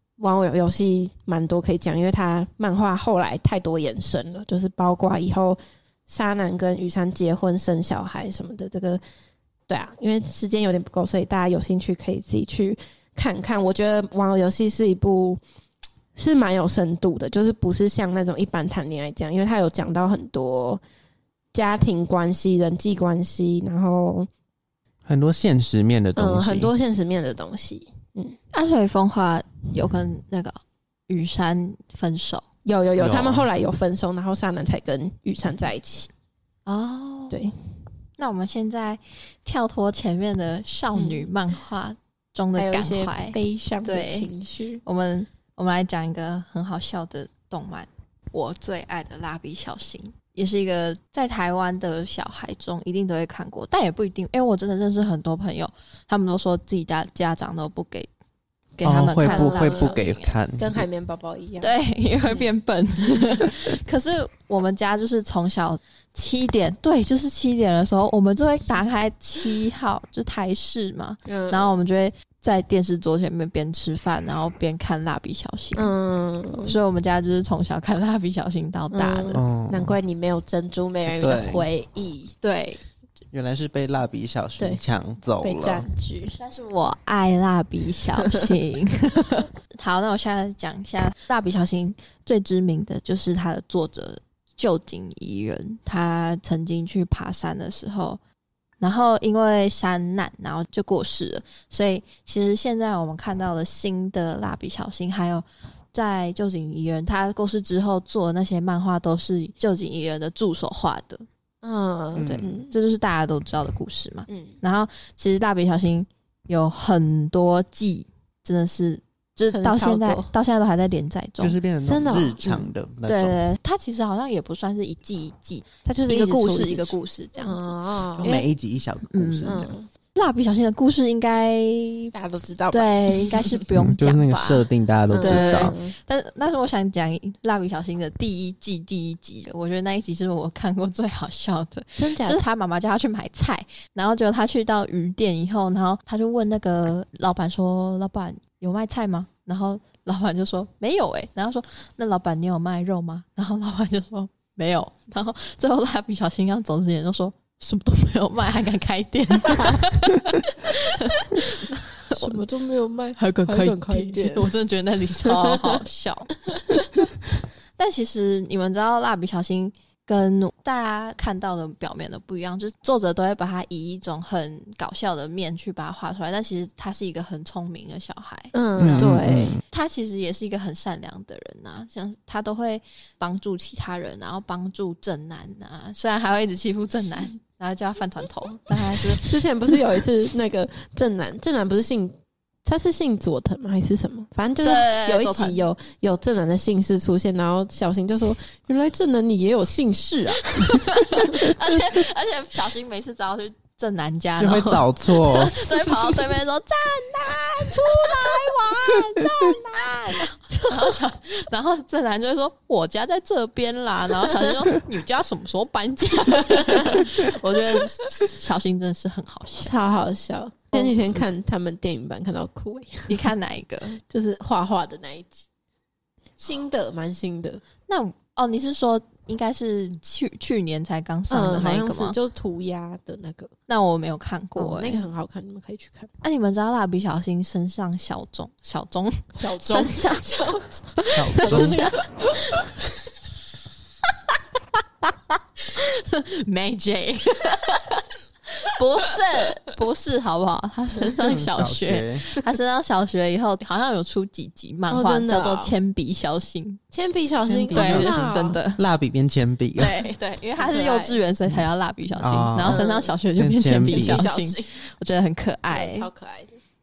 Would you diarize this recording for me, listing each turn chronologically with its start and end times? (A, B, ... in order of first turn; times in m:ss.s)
0:00.2-0:09.0 A
0:09.7-0:15.4 A
0:16.2-0:20.8 A
0:21.5-0:24.3 A
0:25.1-0:26.7 B
0:26.2-0:28.4 A
0:28.5-0:32.4 C
0:32.6-0:36.1 A
0:33.0-0:33.5 B
0:36.7-0:37.4 C
0:38.2-0:44.3 C
0:40.9-0:41.3 A
0:42.6-0:44.8 A
0:44.8-0:58.1 C
0:58.8-1:00.4 C
0:58.8-1:00.8 B
0:59.2-1:00.0 A
1:00.6-1:01.7 A
1:01.6-1:15.9 C
1:11.2-1:11.8 A
1:15.8-1:16.8 A
1:16.5-1:19.4 C
1:18.9-1:22.4 A
1:19.3-1:20.0 B
1:21.2-1:21.6 B
1:22.4-1:22.8 C
1:23.3-1:25.8 B
1:25.4-1:26.4 A
1:26.4-1:38.2 C
1:38.8-1:51.2 C
1:51.6-1:52.7 A
1:52.2-1:52.6 B
1:52.2-2:01.6 C
1:54.3-1:54.6 A
1:59.5-2:00.3 A
2:01.4-2:03.4 B
2:01.9-2:02.5 A
2:02.4-2:08.5 C
2:05.8-2:08.3 A
2:08.2-2:09.6 B
2:09.1-2:12.1 C
2:09.4-2:09.9 A
2:12.1-2:13.3 A
2:12.7-2:14.7 C
2:13.8-2:15.7 B
2:15.1-2:15.9 A
2:15.2-2:42.4 C
2:22.0-2:22.4 A
2:39.6-2:39.8 A
2:41.1-2:41.4 A
2:42.1-2:44.5 A
2:43.2-2:47.1 C
2:45.3-2:45.8 A
2:46.5-2:47.0 A
2:47.8-3:09.2 C
2:58.5-2:59.6 A
2:58.8-2:59.6 B
3:09.2-3:21.4 A
3:14.6-3:15.6 C
3:20.5-3:39.7 C
3:24.4-3:25.6 B
3:30.6-3:30.9 A
3:34.3-3:34.5 A
3:39.6-3:43.3 A
3:40.7-3:41.2 C
3:43.1-3:44.0 C
3:44.0-3:45.5 A
3:46.4-3:47.6 A
3:47.9-3:52.2 C
3:51.3-3:53.5 A
3:53.7-3:55.1 C
3:54.6-3:56.1 A
3:56.2-4:00.3 C
3:59.4-4:02.8 A
4:01.0-4:02.7 C
4:01.2-4:01.8 B
4:05.7-4:16.8 C
4:11.2-4:12.2 B
4:14.9-4:15.7 A
4:16.9-4:18.6 A
4:17.5-4:18.2 B
4:17.7-4:18.8 C
4:18.8-4:20.0 B
4:19.8-4:26.1 C
4:20.6-4:21.2 A
4:22.2-4:22.8 B
4:22.7-4:23.1 A
4:23.4-4:24.3 B
4:23.8-4:24.7 A
4:25.7-4:26.6 A